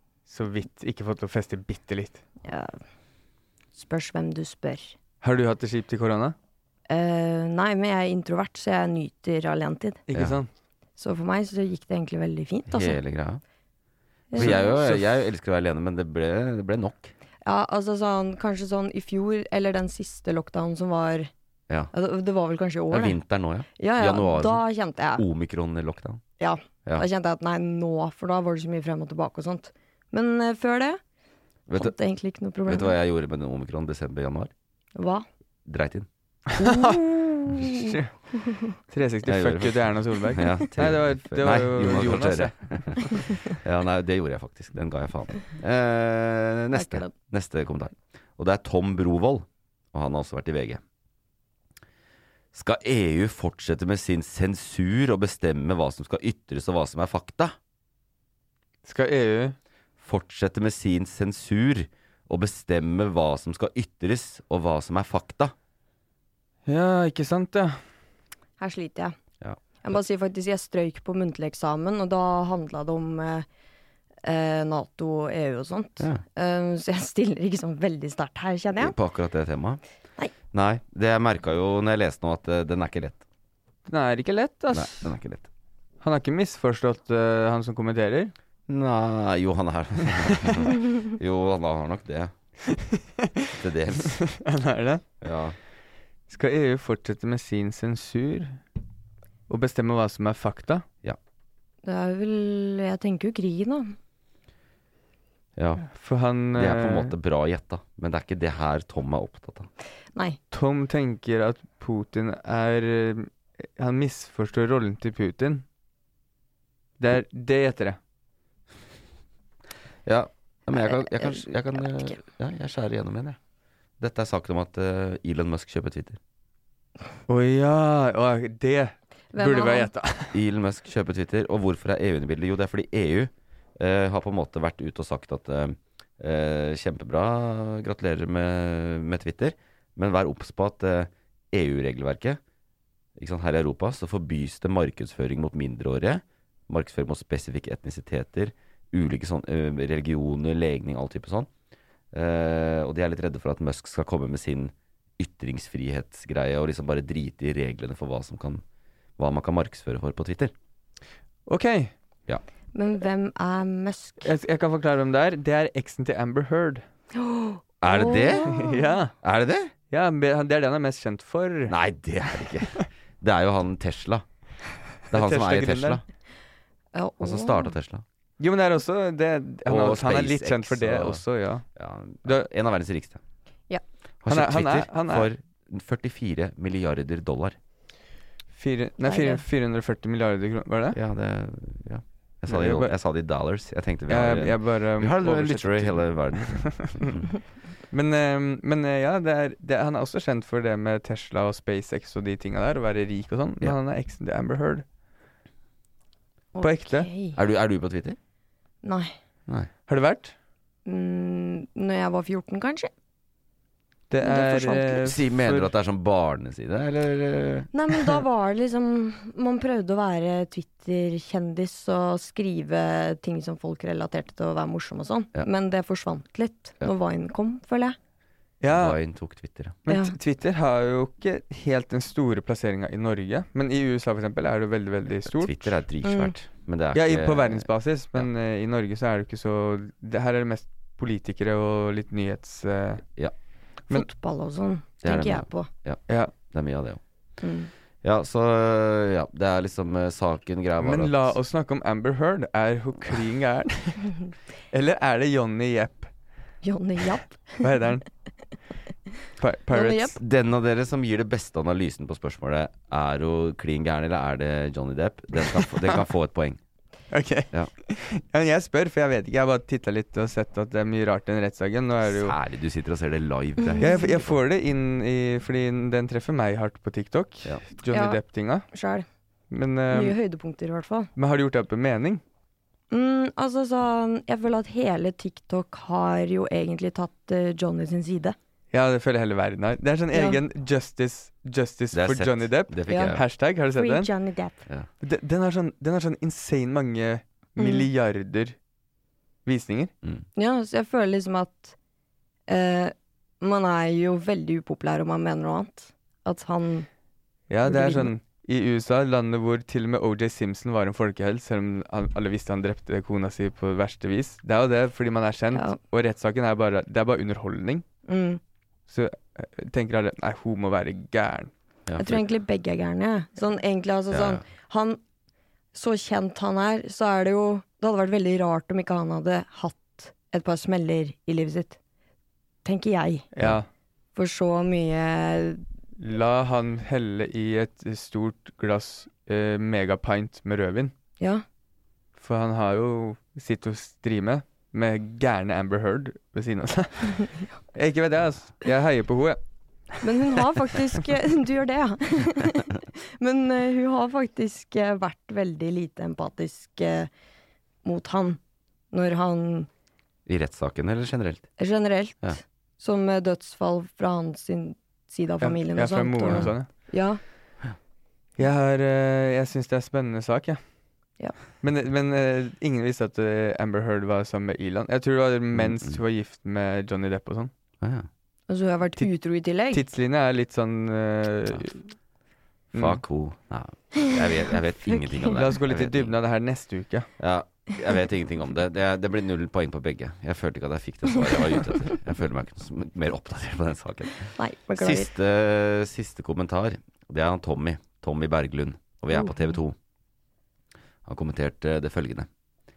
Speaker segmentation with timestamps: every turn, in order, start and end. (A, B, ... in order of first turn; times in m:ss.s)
0:00.3-0:02.2 A
0:02.4-0:02.8 B
0:03.8-0:05.0 B
0:05.2-0:06.4 A
0:06.9-0:10.0 B
0:10.1-0:10.5 A
0:11.0-0:13.0 B
0:12.7-0:13.4 C
0:14.3-0:14.7 B
0:14.3-0:17.1 C
0:14.3-0:15.0 A
0:17.4-0:21.3 B
0:21.9-0:23.2 B
0:22.9-0:24.6 C
0:23.8-0:25.2 B
0:25.1-0:26.2 C
0:26.4-0:31.0 B
0:31.7-0:31.9 C
0:31.7-0:32.9 B
0:32.6-0:34.5 C
0:35.0-0:35.2 B
0:35.6-0:36.1 C
0:36.5-0:38.1 A
0:36.6-0:37.9 B
0:38.4-0:38.7 B
0:38.7-0:43.2 A
0:39.2-0:50.8 C
0:46.7-0:47.1 B
0:52.5-0:57.5 C
0:58.8-0:59.6 A
1:00.0-1:05.5 C
1:06.7-1:07.8 A
1:08.6-1:09.1 B
1:09.8-1:13.4 B
1:14.2-1:18.9 B
1:18.8-1:19.8 C
1:20.5-1:23.2 C
1:23.9-1:25.1 A
1:24.7-1:25.5 C
1:26.0-1:28.3 A
1:28.7-1:32.3 C
1:32.7-1:35.0 A
1:33.6-1:34.2 C
1:35.2-1:35.6 C
1:36.3-1:38.6 A
1:39.5-1:40.8 A
1:41.8-1:43.9 B
1:45.6-1:45.8 C
1:45.8-1:47.1 A
1:46.5-1:49.7 C
1:50.5-1:55.6 A
1:57.0-1:58.0 A
2:00.0-2:03.4 C
2:04.0-2:06.2 C
2:07.3-2:10.4 A
2:09.3-2:09.9 B
2:10.3-2:22.4 C
2:23.2-2:31.5 C
2:32.1-2:38.6 C
2:39.2-2:40.5 C
2:41.5-2:41.9 A
2:42.7-2:44.3 B
2:44.2-2:46.8 A
2:47.1-2:48.8 B
2:47.8-2:48.7 C
2:48.4-2:49.1 A
2:49.2-2:49.7 C
2:49.9-2:51.7 A
2:51.7-2:54.2 C
2:55.1-2:56.0 C
2:55.1-2:56.0 A
2:56.9-2:57.7 B
2:57.2-2:58.0 C
2:58.4-3:01.6 A
2:59.6-3:01.2 C
3:01.8-3:03.2 C
3:04.2-3:07.6 C
3:04.3-3:05.3 A
3:08.6-3:11.0 A
3:09.0-3:09.4 B
3:10.9-3:17.2 C
3:12.5-3:12.9 A
3:14.1-3:17.2 A
3:17.9-3:24.8 A
3:26.5-3:27.4 B
3:26.6-3:27.1 A
3:27.4-3:28.2 C
3:28.8-3:29.1 B
3:29.9-3:30.3 A
3:30.8-3:32.9 B
3:34.1-3:35.7 A
3:34.2-3:35.0 B
3:35.0-3:38.1 C
3:37.7-3:48.0 B
3:48.6-3:49.0 A
3:48.7-3:49.8 C
3:49.8-3:55.8 A
3:49.9-3:50.1 B
3:55.2-3:58.3 C
3:56.0-3:56.3 B
3:56.9-4:03.0 A
4:03.9-4:05.7 B
4:05.0-4:07.0 C
4:06.1-4:06.3 A
4:07.4-4:07.7 B
4:08.0-4:11.4 C
4:10.8-4:14.2 A
4:14.7-4:16.1 A
4:16.6-4:17.6 B
4:17.6-4:18.0 A
4:19.4-4:20.2 A
4:19.7-4:20.1 B
4:20.2-4:26.6 C
4:27.1-4:32.4 A
4:32.0-4:34.4 C
4:33.6-4:34.1 B
4:33.8-4:38.7 A
4:37.9-4:39.0 B
4:39.5-4:40.2 A
4:39.9-4:41.1 B
4:41.2-4:42.2 A
4:42.9-4:48.4 B
4:48.7-4:54.1 A
4:50.1-4:50.4 B
4:51.9-4:53.2 C
4:52.9-4:53.2 B
4:53.7-4:54.6 B
4:55.0-4:58.6 A
4:57.6-4:57.9 B
4:59.4-4:59.9 A
5:00.4-5:01.7 B
5:02.5-5:06.9 B
5:07.5-5:17.8 A
5:07.7-5:08.1 B
5:18.1-5:18.4 B
5:18.9-5:21.5 A
5:21.9-5:22.2 C
5:22.0-5:25.0 B
5:24.1-5:24.4 C
5:25.7-5:31.8 B
5:32.6-5:33.3 B
5:33.3-5:33.6 A
5:34.1-5:35.6 B
5:36.0-5:40.9 A
5:42.2-5:49.4 A
5:50.0-5:57.1 B
5:57.8-5:58.4 B
5:58.9-5:59.7 B
6:00.2-6:01.5 C
6:01.6-6:07.2 B
6:05.4-6:06.7 A
6:06.3-6:06.5 C
6:08.4-6:10.6 A
6:11.6-6:17.5 A
6:15.5-6:16.0 C
6:17.8-6:18.1 C
6:18.5-6:19.8 B
6:19.7-6:21.9 A
6:22.7-6:23.0 A
6:22.7-6:26.1 C
6:24.9-6:25.3 B
6:25.3-6:27.1 A
6:27.2-6:39.8 C
6:34.4-6:35.1 B
6:39.1-6:39.4 B
6:41.0-6:42.3 C